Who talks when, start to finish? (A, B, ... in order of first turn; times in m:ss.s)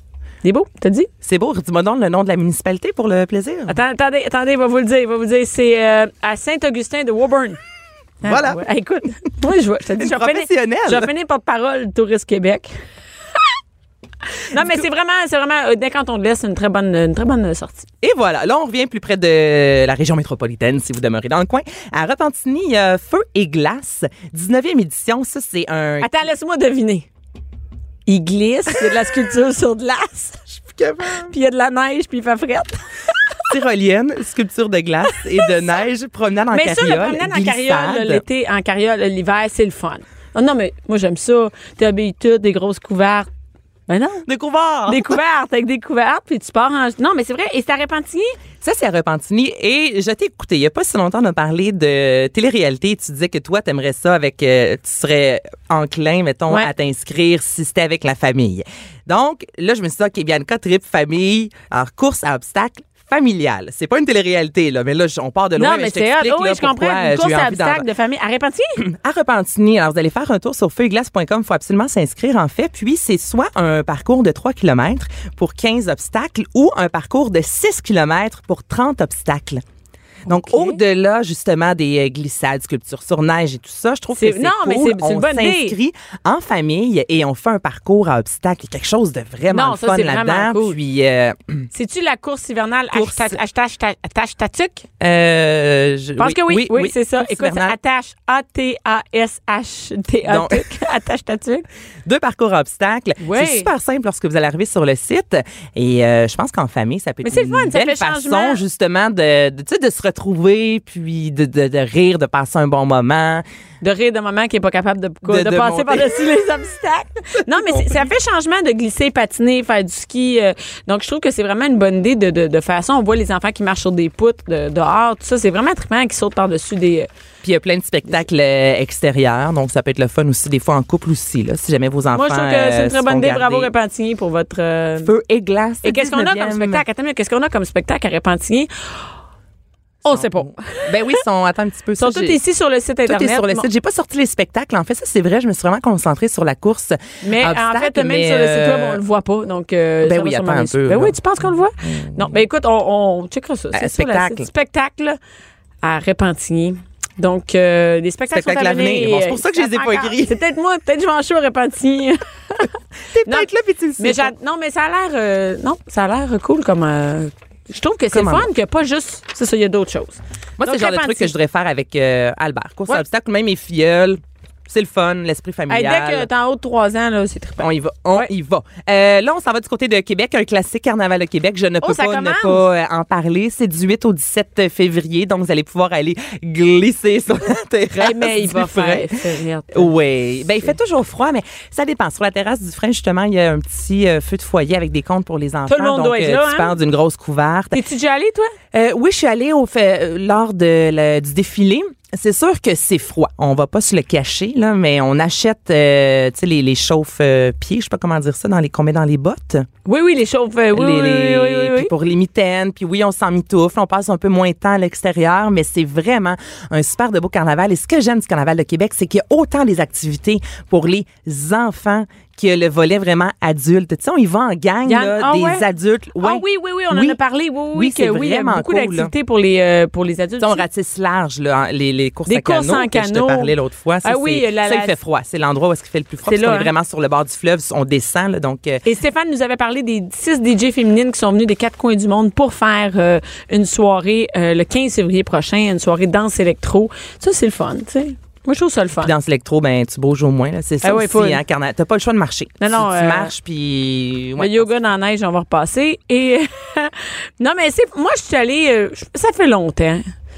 0:00.4-0:01.1 A
0:01.2-0:03.7 B
0:03.7-0:07.6 A
0:08.2-0:12.7 A
0:08.3-0:08.6 B
0:10.0-0:11.1 B
0:14.5-0:17.9 A
0:18.0-0:26.1 B
0:26.0-0:27.1 A
0:28.0-0:30.5 A
0:30.6-0:31.3 B
0:31.3-0:32.8 A
0:33.5-0:38.2 B
0:36.5-0:43.3 A
0:43.9-0:44.2 A
0:44.2-0:45.2 B
0:44.9-0:48.4 A
0:48.6-1:07.9 B
1:05.6-1:08.8 A
1:08.8-1:19.6 B
1:20.3-1:20.8 A
1:20.3-1:31.7 B
1:24.2-1:25.8 A
1:29.5-1:30.8 A
1:31.7-1:34.8 A
1:32.9-1:33.4 B
1:35.0-1:37.8 B
1:36.2-1:41.6 A
1:40.3-1:40.7 B
1:42.0-1:53.4 B
1:43.2-1:43.7 A
1:47.2-1:48.6 A
1:53.8-2:07.1 A
1:55.2-1:56.2 B
1:57.7-1:58.0 B
2:07.4-2:13.7 B
2:12.1-2:15.1 A
2:15.0-2:16.8 B
2:15.8-2:18.7 A
2:20.0-2:21.1 A
2:20.1-2:22.4 B
2:22.0-2:23.6 A
2:23.0-2:29.0 B
2:27.2-2:35.2 A
2:30.0-2:31.2 B
2:31.9-2:32.3 B
2:33.7-2:34.5 B
2:35.8-2:42.7 A
2:38.3-2:40.3 B
2:43.1-2:44.3 B
2:43.2-2:51.3 A
2:48.1-2:48.5 B
2:50.6-2:56.3 B
2:55.7-2:58.3 A
2:57.6-3:09.2 B
3:01.8-3:02.6 A
3:08.0-3:09.9 A
3:09.7-3:17.8 B
3:15.7-3:16.7 A
3:17.7-3:18.5 A
3:18.7-3:29.7 B
3:29.9-3:31.9 A
3:30.7-3:47.2 B
3:44.9-3:45.6 A
3:46.2-3:50.6 A
3:47.7-3:49.1 B
3:50.4-3:58.8 B
3:52.3-3:53.5 A
3:54.0-3:54.9 A
3:56.3-3:56.7 A
3:58.8-4:09.1 A
4:09.0-4:14.7 B
4:10.8-4:11.4 A
4:12.6-4:13.3 A
4:14.4-4:20.0 A